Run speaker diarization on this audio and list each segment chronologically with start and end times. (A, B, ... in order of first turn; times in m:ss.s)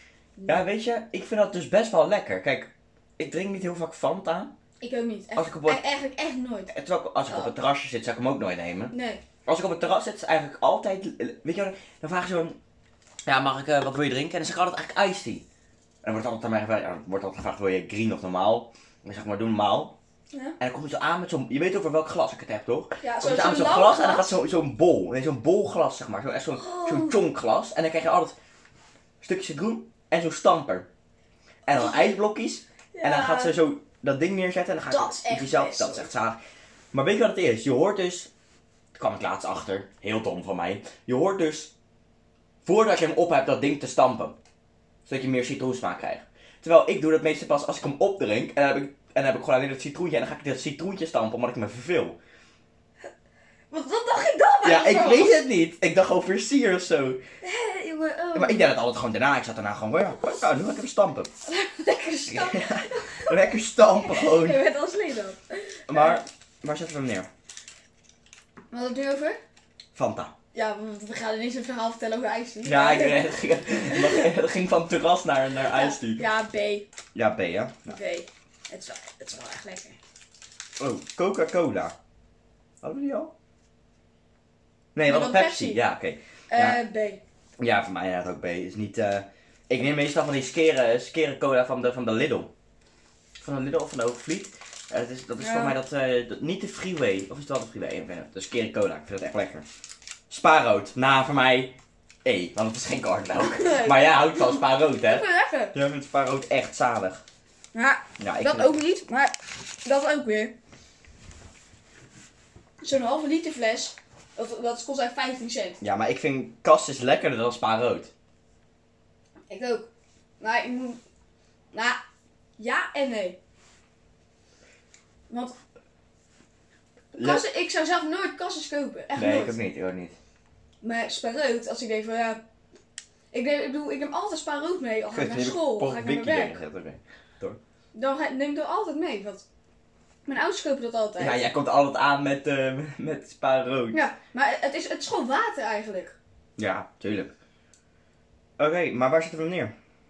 0:00.5-0:04.5 A
0:04.8-0:06.7 B
0:05.4-0:05.8 A
0:06.7-0:12.6 A
0:08.9-0:09.2 B
0:13.3-0:15.4 A
0:16.0-0:20.0 A
0:20.6-0:28.4 A
0:23.0-0:24.4 B
0:26.5-0:27.2 B
0:29.2-0:30.9 A
0:31.7-0:36.4 A
0:31.7-0:32.0 B
0:32.9-0:33.6 B
0:34.9-0:36.1 B
0:36.9-0:38.3 A
0:39.0-0:41.7 A
0:42.6-0:44.4 A
0:45.1-0:52.2 A
0:53.7-0:55.5 B
0:54.6-0:57.2 A
0:57.4-0:58.7 B
0:58.4-1:01.3 A
1:01.4-1:06.2 B
1:02.3-1:04.6 A
1:05.9-1:07.3 A
1:08.7-1:09.4 B
1:10.0-1:10.3 A
1:10.5-1:14.3 B
1:12.6-1:16.2 A
1:15.7-1:16.9 B
1:17.2-1:18.0 A
1:17.9-1:20.0 B
1:20.8-1:22.0 A
1:22.8-1:23.3 A
1:25.0-1:26.8 A
1:25.1-1:25.8 B
1:26.5-1:27.2 B
1:27.6-1:32.5 A
1:33.4-1:39.7 A
1:35.4-1:35.8 B
1:40.3-1:47.2 A
1:43.4-1:45.8 B
1:47.7-1:50.6 B
1:48.2-1:48.7 A
1:52.8-1:55.8 B
1:55.8-1:58.1 A
1:59.5-1:59.9 B
2:00.4-2:01.0 B
2:01.7-2:02.0 B
2:02.6-2:03.4 B
2:05.3-2:05.6 B
2:07.2-2:09.6 B
2:07.2-2:07.4 A
2:09.1-2:10.2 A
2:10.8-2:12.4 B
2:13.3-2:16.6 B
2:15.1-2:17.6 A
2:17.9-2:19.4 B
2:20.3-2:21.4 B
2:21.2-2:24.0 A
2:23.9-2:26.2 B
2:26.6-2:27.3 A
2:28.6-2:29.7 A